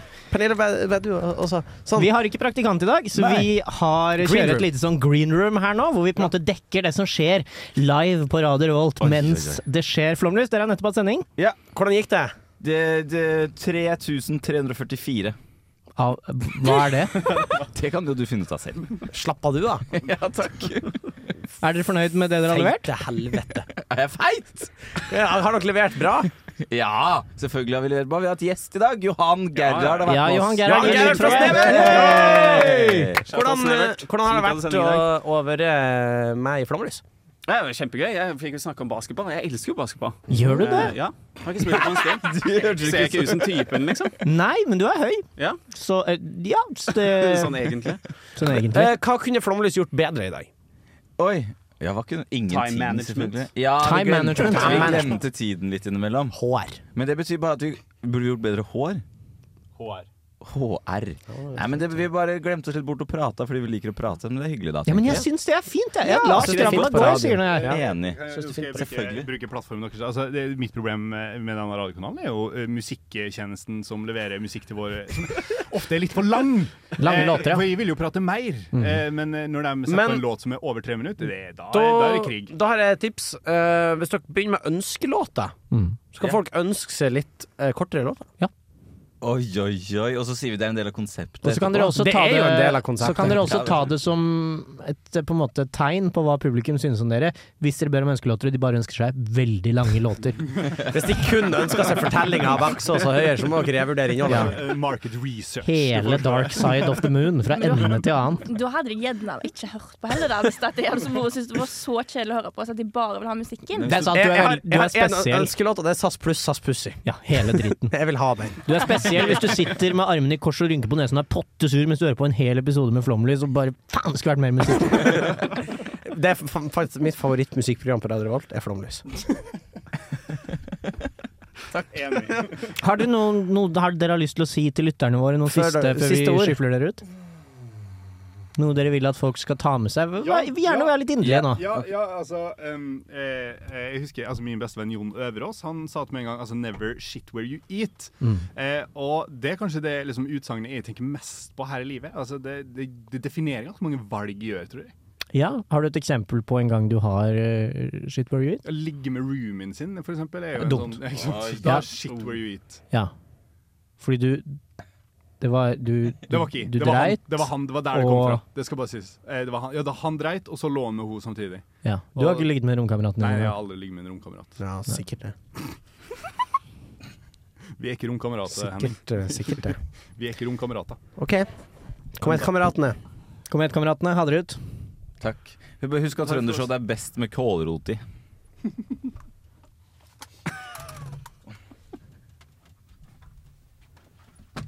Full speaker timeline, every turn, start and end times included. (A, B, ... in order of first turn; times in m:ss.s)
0:00.3-0:02.1 A
0:02.0-0:11.3 B
0:04.2-0:04.7 A
0:09.0-0:09.6 C
0:11.7-0:12.3 A
0:12.6-0:15.4 C
0:16.0-0:17.3 B
0:17.1-0:19.1 C
0:19.1-0:19.9 A
0:19.9-0:21.0 C
0:21.6-0:22.9 B
0:22.5-0:23.7 A
0:23.8-0:24.7 C
0:25.0-0:26.3 A
0:26.7-0:33.2 C
0:29.6-0:30.2 D
0:30.1-0:33.1 B
0:30.6-0:37.0 A
0:30.9-0:35.1 D
0:37.5-0:44.2 D
0:40.3-0:41.0 B
0:41.6-0:43.7 C
0:44.2-0:47.7 B
0:46.9-0:48.0 D
0:48.4-0:48.9 B
0:48.6-0:50.5 A
0:51.2-0:56.4 C
0:52.5-0:53.5 D
0:53.8-0:55.0 B
0:54.4-0:55.2 A
0:56.3-0:56.8 A
0:57.0-0:59.0 C
0:59.8-1:00.1 E
1:00.4-1:05.3 C
1:01.3-1:02.1 A
1:04.9-1:07.8 B
1:06.0-1:07.8 A
1:06.4-1:09.3 C
1:07.5-1:22.5 E
1:17.0-1:17.7 B
1:18.7-1:19.0 B
1:19.9-1:20.2 A
1:21.7-1:25.6 A
1:25.7-1:26.0 B
1:26.1-1:28.3 A
1:29.2-1:31.9 C
1:31.4-1:40.5 B
1:31.7-1:33.7 A
1:33.2-1:33.8 C
1:40.9-1:44.6 A
1:44.3-1:44.5 B
1:44.3-1:47.1 E
1:45.6-1:48.4 B
1:47.5-1:54.1 F
1:53.8-1:55.5 B
1:54.1-1:59.5 A
1:57.0-1:57.9 B
1:58.6-2:05.4 B
2:06.0-2:09.0 A
2:11.8-2:12.5 E
2:12.8-2:17.0 B
2:15.5-2:16.6 A
2:18.6-2:21.7 B
2:20.2-2:34.9 E
2:35.3-2:38.6 B
2:38.6-2:42.8 E
2:40.6-2:41.0 B
2:41.2-2:42.3 C
2:44.0-2:44.6 B
2:45.4-2:48.4 B
2:46.3-2:51.6 E
2:51.8-2:53.6 B
2:52.2-2:52.5 E
2:53.2-2:54.6 E
2:54.6-2:55.4 A
2:57.8-3:01.0 E
2:58.5-2:59.8 A
3:01.2-3:01.5 A
3:02.2-3:03.0 A
3:03.5-3:04.6 B
3:05.2-3:08.0 C
3:06.2-3:06.6 E